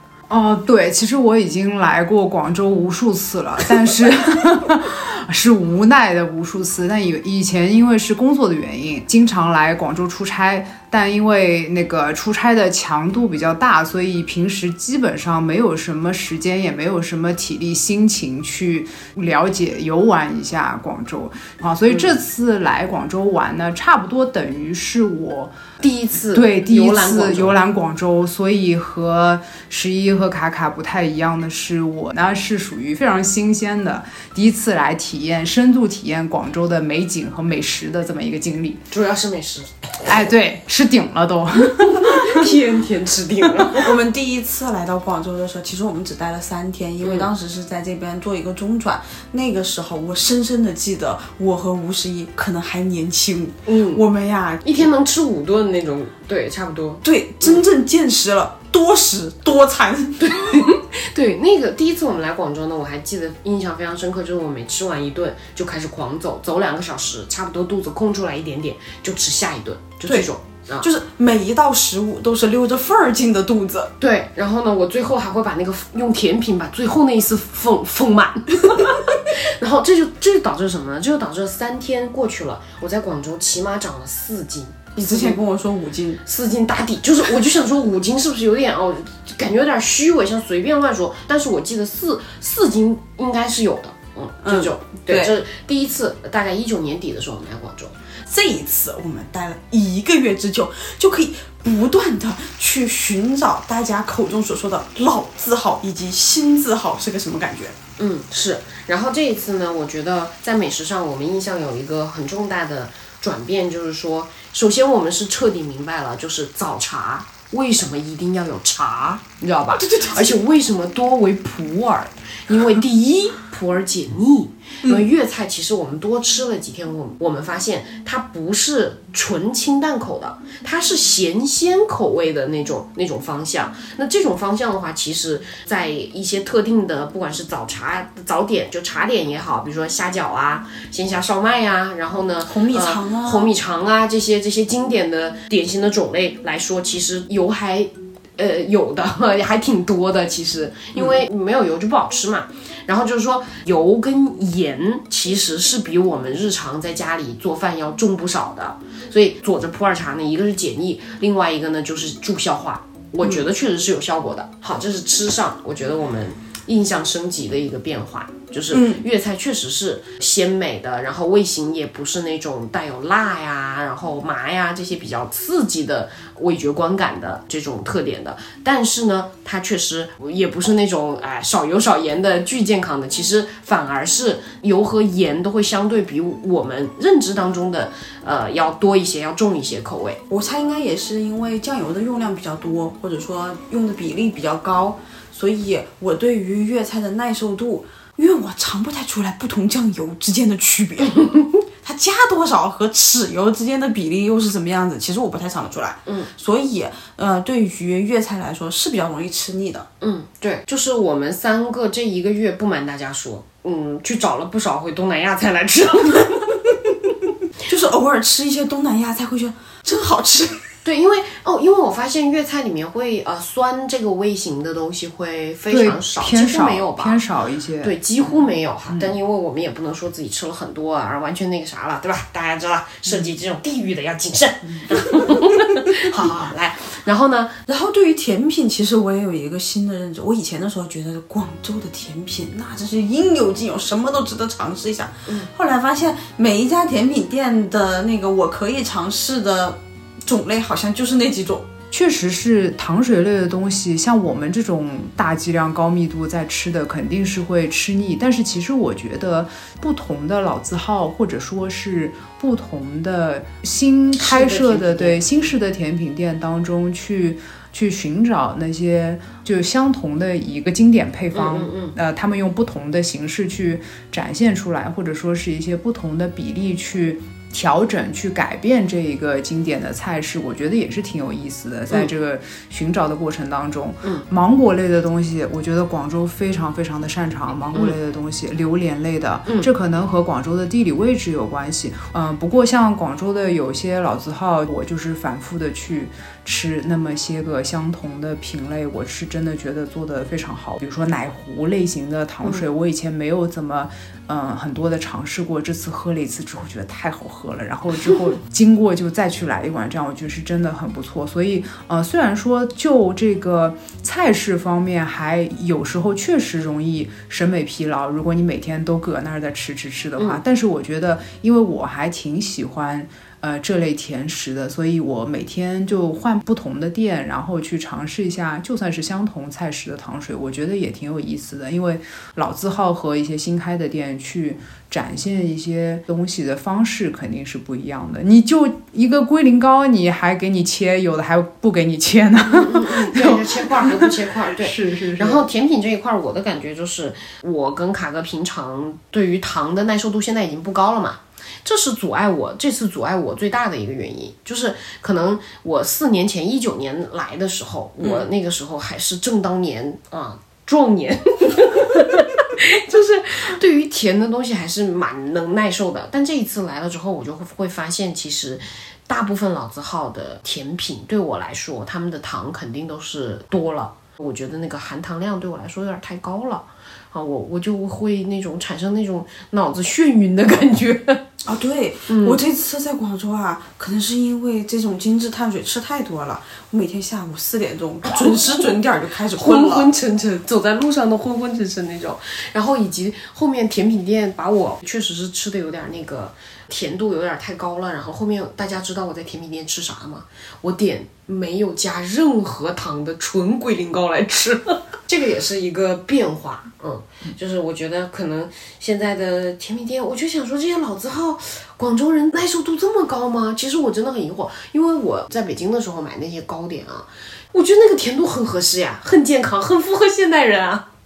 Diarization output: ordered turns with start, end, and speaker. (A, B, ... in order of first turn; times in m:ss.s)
0:00.3-0:25.6 A
0:21.9-0:22.2 B
0:25.8-0:27.6 B
0:26.3-0:38.8 A
0:38.9-0:40.2 B
0:40.0-0:42.4 A
0:41.8-0:43.9 B
0:43.7-0:54.9 C
0:47.0-0:47.3 B
0:53.6-0:54.0 B
0:54.6-0:57.6 B
0:57.0-1:00.7 C
1:00.2-1:10.9 B
1:10.8-1:13.9 C
1:14.0-1:25.4 B
1:25.0-1:26.2 C
1:26.2-1:37.9 B
1:34.4-1:35.3 C
1:38.3-1:47.8 C
1:48.0-3:10.2 B
1:59.8-2:00.4 C
2:22.4-2:23.5 C
2:48.7-2:49.0 C
3:10.3-3:29.9 C
3:30.0-3:36.6 B
3:37.6-3:40.6 C
3:40.8-3:47.2 B
3:45.7-3:48.3 A
3:47.8-3:57.6 B
3:48.9-3:49.1 A
3:57.7-4:11.7 C
4:11.9-5:45.4 A
4:24.2-4:25.5 B
4:31.3-4:31.9 B
5:42.5-6:21.2 B
6:21.4-6:29.9 C
6:22.1-6:22.4 B
6:28.1-6:28.6 B
6:29.4-7:00.8 B